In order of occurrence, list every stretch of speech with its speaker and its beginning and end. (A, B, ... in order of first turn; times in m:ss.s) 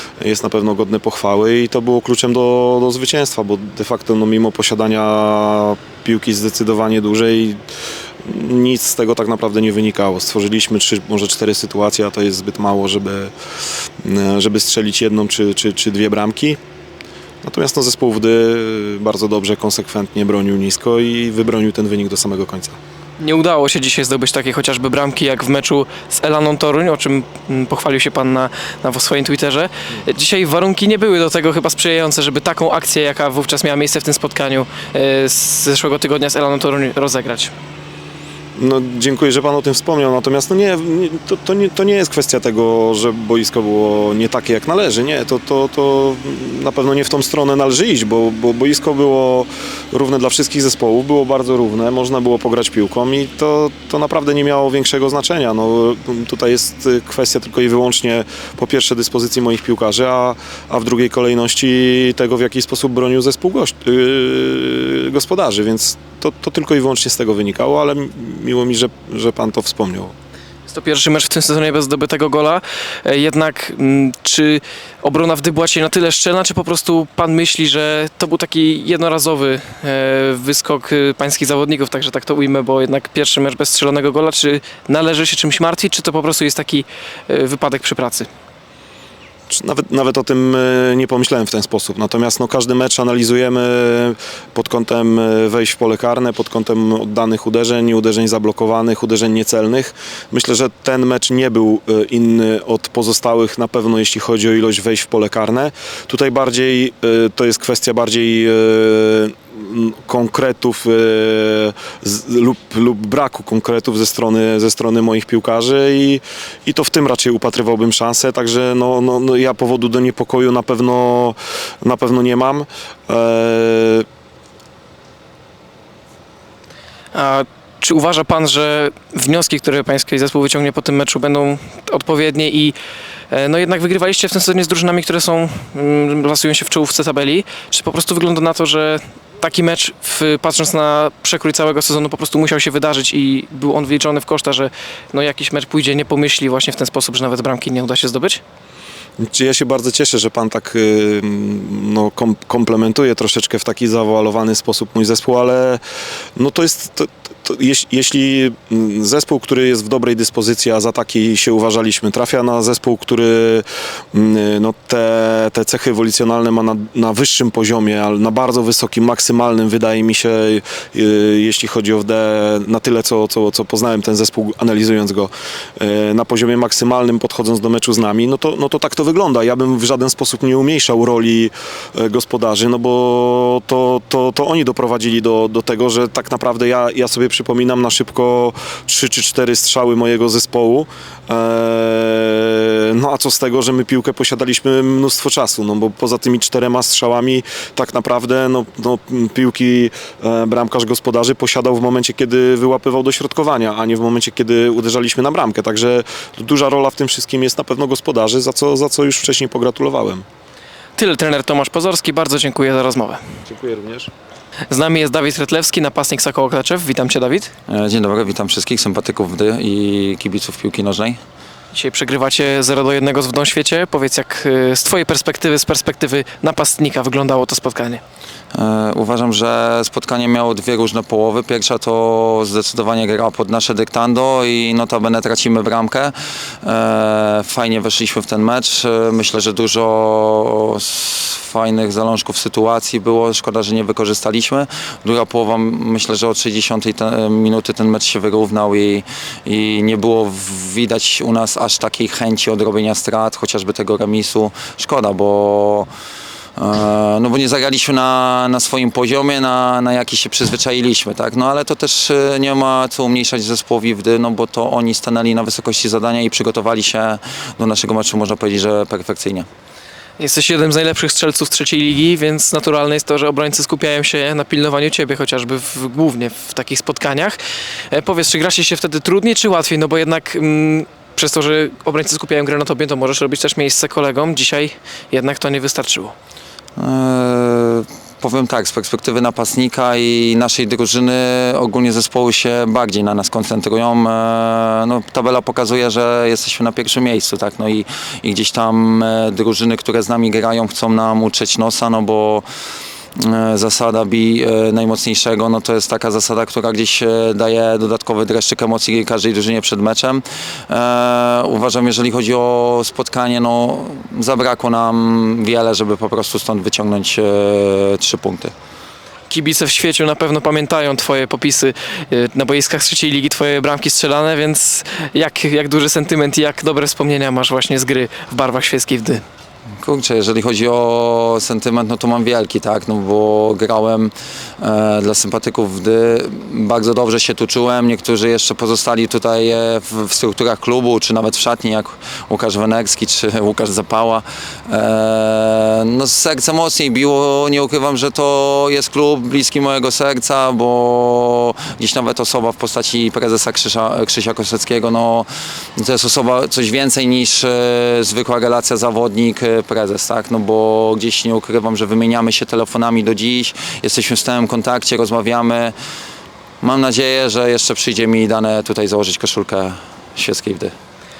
0:00.2-0:07.6 A
0:08.2-0:13.3 A
0:14.0-0:16.6 A
0:17.4-0:22.8 A
0:23.2-0:37.5 B
0:38.6-1:10.1 A
1:10.7-1:28.3 B
1:29.5-2:04.0 A
2:07.1-2:12.7 B
2:13.3-2:28.4 B
2:29.2-2:35.8 A
2:36.4-3:30.2 A
3:31.0-3:33.2 B
3:33.5-3:34.1 A
3:34.7-3:37.5 B
3:37.7-3:41.2 C
3:41.7-3:48.0 B
3:48.5-4:15.9 C
4:16.6-4:29.5 C
4:30.2-4:37.4 B
4:37.9-4:46.1 B
4:46.8-5:02.4 C
5:03.2-5:18.5 C
5:19.3-5:29.2 B
5:29.8-5:55.3 C
5:55.8-6:05.7 C
6:06.6-6:10.7 C